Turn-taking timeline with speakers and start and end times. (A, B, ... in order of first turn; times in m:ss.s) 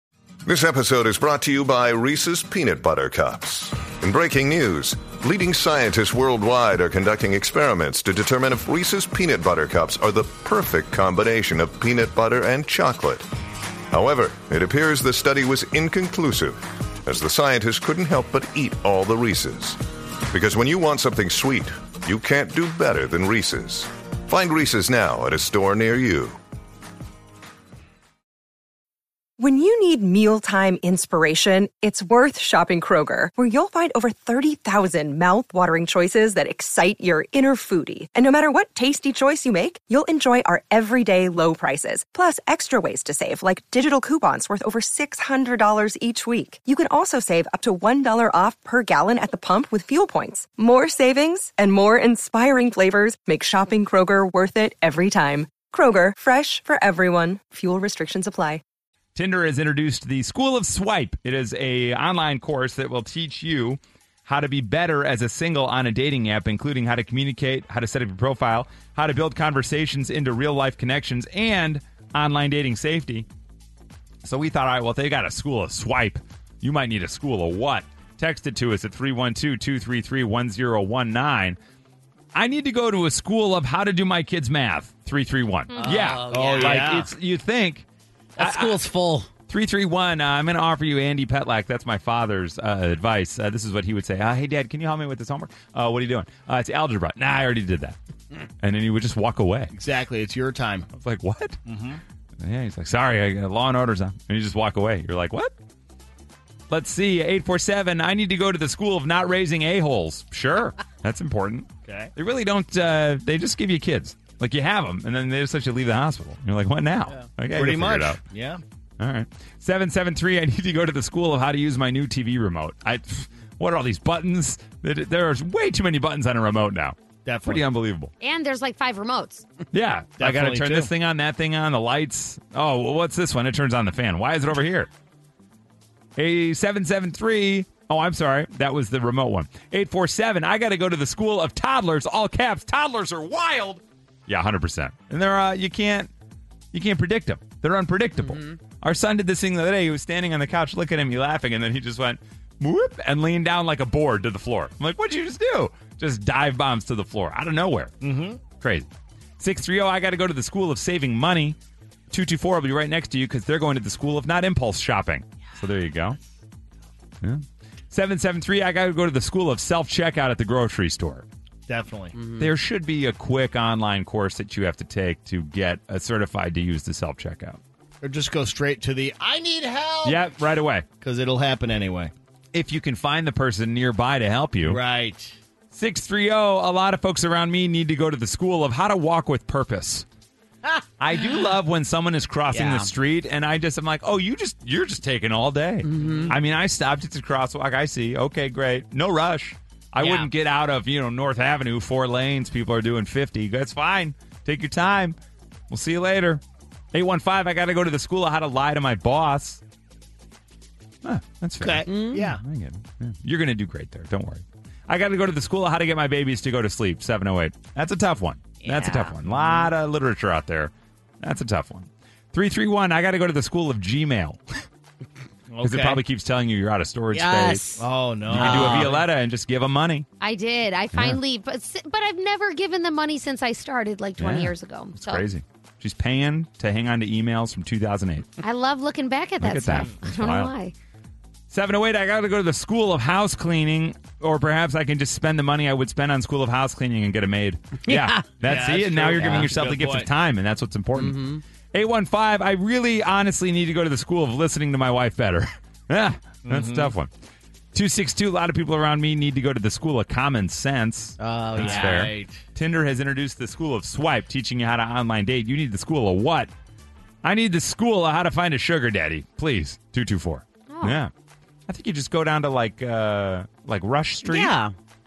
0:00.4-0:13.2 A
0:13.9-0:19.8 A
0:20.3-0:26.4 A
0:29.4-0:58.6 B
0:59.2-1:13.3 C
1:14.2-1:21.6 C
1:22.3-1:27.9 C
1:25.7-1:26.0 D
1:25.8-1:26.9 E
1:26.3-1:27.1 F
1:28.4-1:29.3 E
1:28.4-1:28.8 C
1:29.5-1:38.0 C
1:38.6-1:39.7 C
1:39.7-1:40.9 F
1:40.9-1:41.6 C
1:41.7-1:42.0 F
1:42.4-1:45.5 C
1:46.7-1:58.2 C
1:51.8-1:52.1 F
1:57.5-1:58.6 F
1:59.0-2:08.1 C
2:07.2-2:07.6 F
2:08.2-2:09.4 D
2:09.7-2:14.9 C
2:10.2-2:10.9 F
2:16.2-2:26.1 C
2:26.7-2:38.9 C
2:28.2-2:28.6 E
2:38.0-2:38.4 F
2:39.4-2:41.6 C
2:42.1-2:46.2 C
2:47.2-2:51.3 C
2:51.7-2:52.1 F
2:52.1-2:52.5 E
2:52.4-2:57.6 C
2:58.0-3:00.2 F
3:00.0-3:00.9 C
3:01.0-3:02.1 F
3:02.5-3:04.8 C
3:04.6-3:05.4 F
3:05.7-3:10.0 C
3:10.6-3:11.4 E
3:11.0-3:25.2 C
3:12.5-3:12.9 E
3:15.8-3:16.4 E
3:20.0-3:20.3 E
3:25.7-3:26.4 C
3:26.9-3:29.6 C
3:31.0-3:44.6 C
3:31.6-3:32.4 F
3:31.9-3:32.3 E
3:38.6-3:39.7 E
3:45.5-3:46.0 F
3:45.6-3:47.6 C
3:47.1-3:49.0 E
3:47.8-3:49.0 F
3:48.3-3:50.1 C
3:50.2-3:55.2 D
3:50.9-3:51.2 C
3:54.2-3:58.3 C
3:58.4-4:00.7 D
3:59.4-4:00.5 C
4:01.5-4:17.1 C
4:07.8-4:08.4 E
4:08.4-4:10.1 F
4:09.2-4:09.5 E
4:11.0-4:11.4 E
4:16.4-4:16.9 F
4:17.7-4:26.5 C
4:21.2-4:22.1 E
4:21.6-4:22.4 F
4:27.2-4:31.1 C
4:30.7-4:31.0 D
4:31.7-4:34.6 C
4:34.2-4:34.7 E